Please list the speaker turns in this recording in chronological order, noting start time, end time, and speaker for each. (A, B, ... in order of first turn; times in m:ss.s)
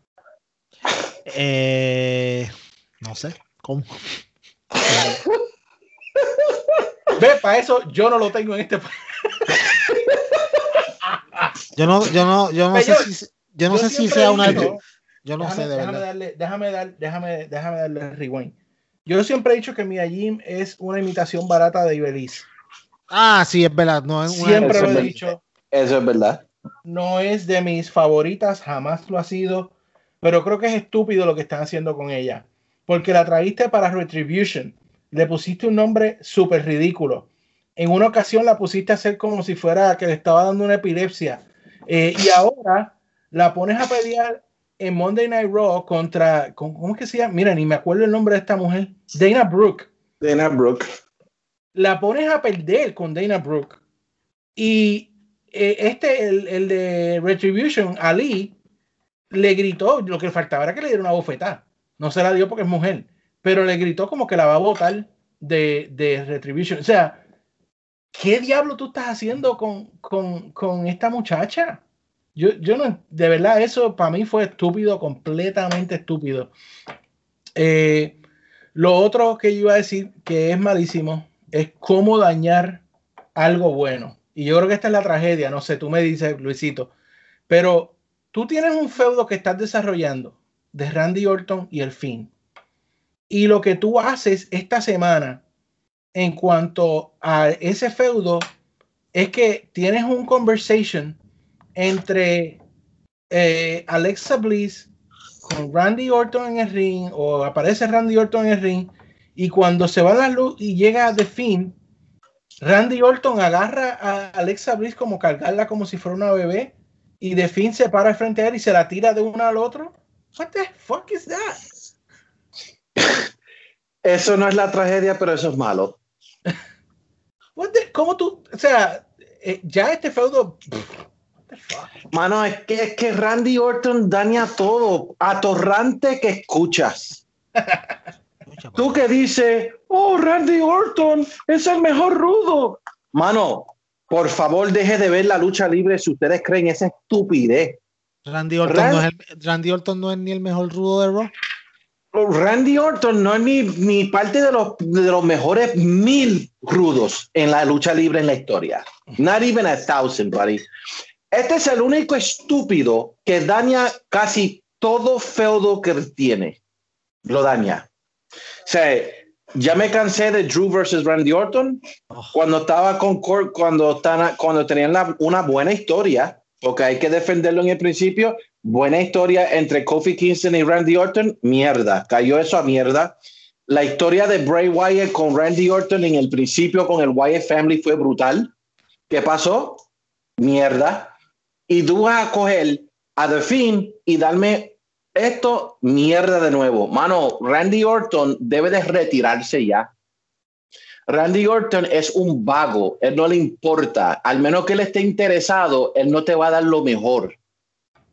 0:01.2-0:04.0 A
0:04.9-0:05.1 A
0:07.2-0:09.6 B
0:11.1-0:11.4 B
0:11.8-0:14.7 A
0:12.7-0:13.1 B
0:13.7-0:14.8 B
0:15.2-0:16.0 A
0:15.4-0:18.5 B
0:19.0-0:22.5 B
0:23.1-0:25.3 A
0:24.3-0:25.4 B
0:24.5-0:25.1 C
0:25.7-0:26.4 C
0:26.8-0:49.9 B
0:50.2-0:50.8 C
0:51.7-0:53.8 B
0:54.6-0:58.5 B
0:59.3-1:07.2 B
1:08.1-1:11.8 B
1:12.3-1:16.5 B
1:17.6-1:18.2 B
1:18.7-1:22.8 B
1:23.3-1:26.9 B
1:27.5-1:32.3 B
1:33.3-1:35.4 B
1:36.1-1:38.4 B
1:39.1-1:41.2 B
1:41.8-1:42.6 B
1:43.3-1:44.9 B
1:45.4-1:51.8 B
1:52.6-2:01.6 B
2:03.0-2:03.2 C
2:04.0-2:06.0 C
2:07.6-2:10.9 B
2:11.5-2:11.9 B
2:12.1-2:17.2 C
2:18.5-2:18.9 A
2:18.8-2:27.8 C
2:28.2-2:31.3 A
2:28.6-2:29.0 C
2:32.1-2:40.6 C
2:41.3-2:46.6 C
2:47.2-2:47.9 C
2:48.6-2:51.8 C
2:52.3-3:03.1 C
3:03.7-3:08.5 C
3:09.1-3:09.8 C
3:10.4-3:11.1 C
3:11.7-3:19.9 C
3:21.1-3:27.4 C